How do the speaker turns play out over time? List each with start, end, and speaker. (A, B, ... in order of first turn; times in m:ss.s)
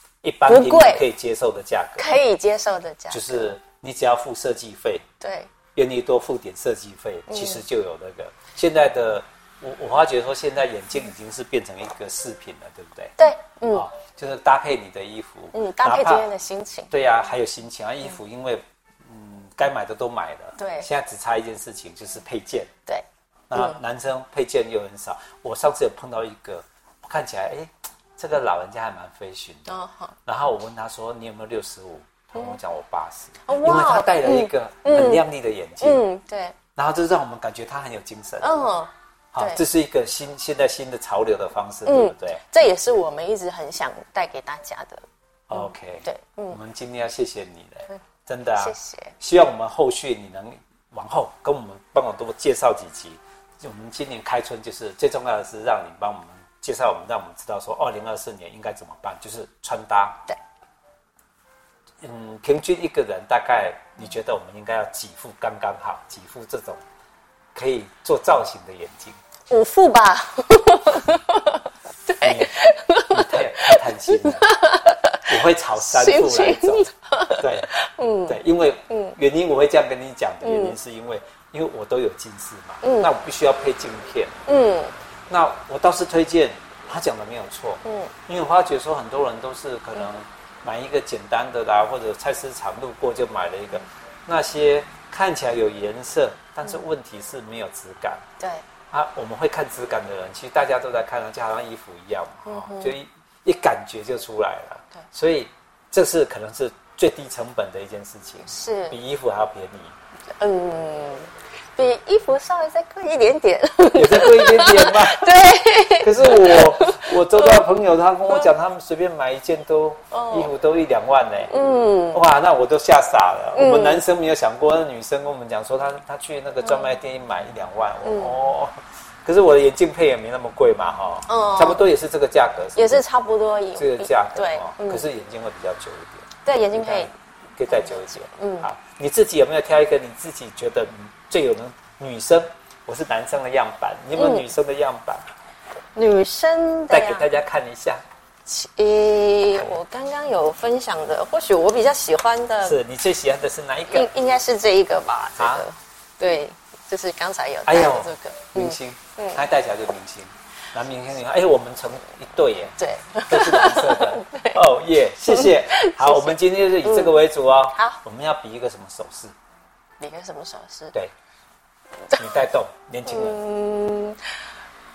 0:00.2-0:02.1 A
0:00.4-0:01.0 B
0:02.0-0:03.5 B
0:03.1-0:05.0 A
0:05.2-0:05.5 B
0:05.7-0:13.2 A
0:07.3-0:07.6 B
0:13.2-0:13.8 B
0:13.7-0:16.3 A
0:15.5-0:16.9 B
0:16.9-0:22.7 A
0:20.6-0:20.9 B
0:22.9-0:23.8 B
0:23.5-0:29.7 A
0:29.6-0:30.2 B
0:30.2-0:36.0 A
0:33.5-0:35.2 B
0:35.8-0:36.6 B
0:36.7-0:38.5 A
0:38.4-0:39.6 B
0:39.3-0:42.4 A
0:41.8-0:46.6 B
0:45.5-1:00.2 A
0:48.5-0:49.2 B
1:02.0-1:06.8 A
1:07.5-1:09.2 A
1:09.5-1:19.2 B
1:12.2-1:12.6 A
1:13.1-1:14.6 A
1:15.2-1:17.7 A
1:18.3-1:24.4 A
1:20.4-1:20.8 B
1:22.8-1:23.1 B
1:24.5-1:24.9 B
1:25.3-1:38.2 A
1:27.8-1:28.1 B
1:38.4-1:38.6 B
1:38.9-1:49.9 A
1:42.4-1:42.9 B
1:48.5-1:49.0 B
1:50.4-1:57.7 B
1:53.9-1:55.3 A
1:56.0-2:01.5 A
2:00.1-2:00.5 B
2:01.5-2:02.2 B
2:02.1-2:13.0 A
2:03.5-2:04.0 B
2:06.6-2:06.9 B
2:08.0-2:08.3 B
2:11.3-2:11.8 B
2:12.8-2:15.0 B
2:13.8-2:25.3 A
2:16.4-2:17.1 B
2:17.7-2:18.7 B
2:24.1-2:24.5 B
2:25.9-2:27.3 B
2:26.9-2:28.0 A
2:28.4-2:32.8 B
2:32.6-2:34.1 A
2:33.9-2:39.4 B
2:35.4-2:35.7 A
2:37.6-2:42.8 A
2:42.8-2:44.6 B
2:43.3-2:49.3 A
2:45.3-2:47.2 B
2:47.7-2:48.0 B
2:50.0-2:50.9 B
2:52.1-2:53.4 A
2:53.0-2:54.2 B